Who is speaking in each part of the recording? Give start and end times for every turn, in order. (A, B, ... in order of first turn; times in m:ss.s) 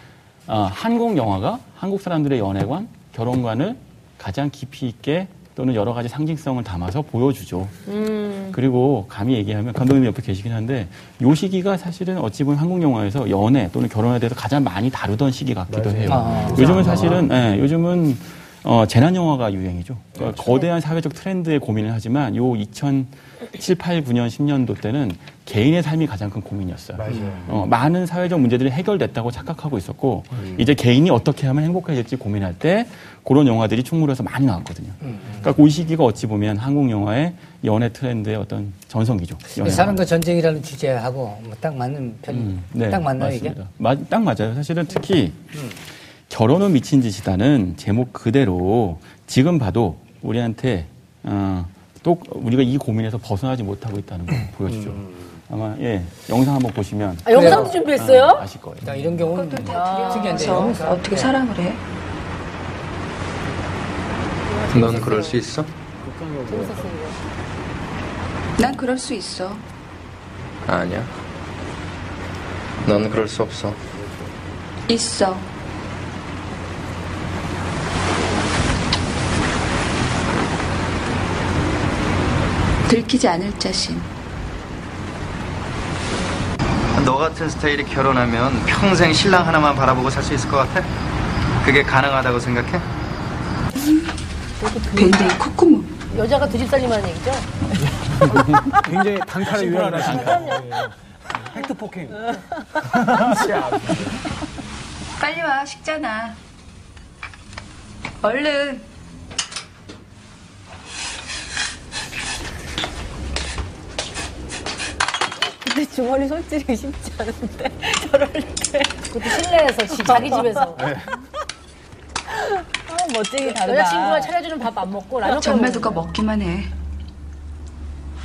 0:00.5-0:07.7 A
0:07.9-0:08.6 B
0:08.5-0:40.0 A
0:15.7-0:17.1 C
0:16.1-0:17.2 D
0:27.0-0:27.5 C
0:27.1-0:27.4 D
0:30.4-0:30.6 C
0:35.0-0:35.4 D
0:39.5-0:43.6 D
0:42.3-0:45.5 A
0:46.3-0:59.2 A
0:57.3-0:58.4 B
0:57.3-0:57.8 D
0:58.8-1:01.4 D
0:59.3-1:01.8 E
0:59.7-1:00.8 B
1:04.5-1:05.4 B
1:04.7-1:05.7 F
1:06.0-1:07.0 C
1:06.5-1:07.2 B
1:08.6-1:09.6 E
1:10.7-1:11.1 F
1:12.8-1:13.8 F
1:14.9-1:15.5 E
1:22.9-1:24.1 E
1:26.9-1:30.9 F
1:31.6-1:32.8 F
1:34.6-1:35.3 B
1:34.9-1:36.0 E
1:36.1-1:37.5 B
1:38.2-1:40.9 G
1:38.4-1:38.8 A
1:39.6-1:39.9 C
1:40.0-1:40.4 A
1:40.0-1:40.6 B
1:41.5-1:42.2 C
1:43.1-1:44.1 G
1:45.2-1:46.4 E
1:48.2-1:48.9 E
1:55.6-2:00.9 H
1:59.1-2:00.9 B
2:00.8-2:01.1 C
2:02.3-2:04.3 H
2:03.4-2:05.9 B
2:05.3-2:05.9 H
2:05.3-2:06.7 E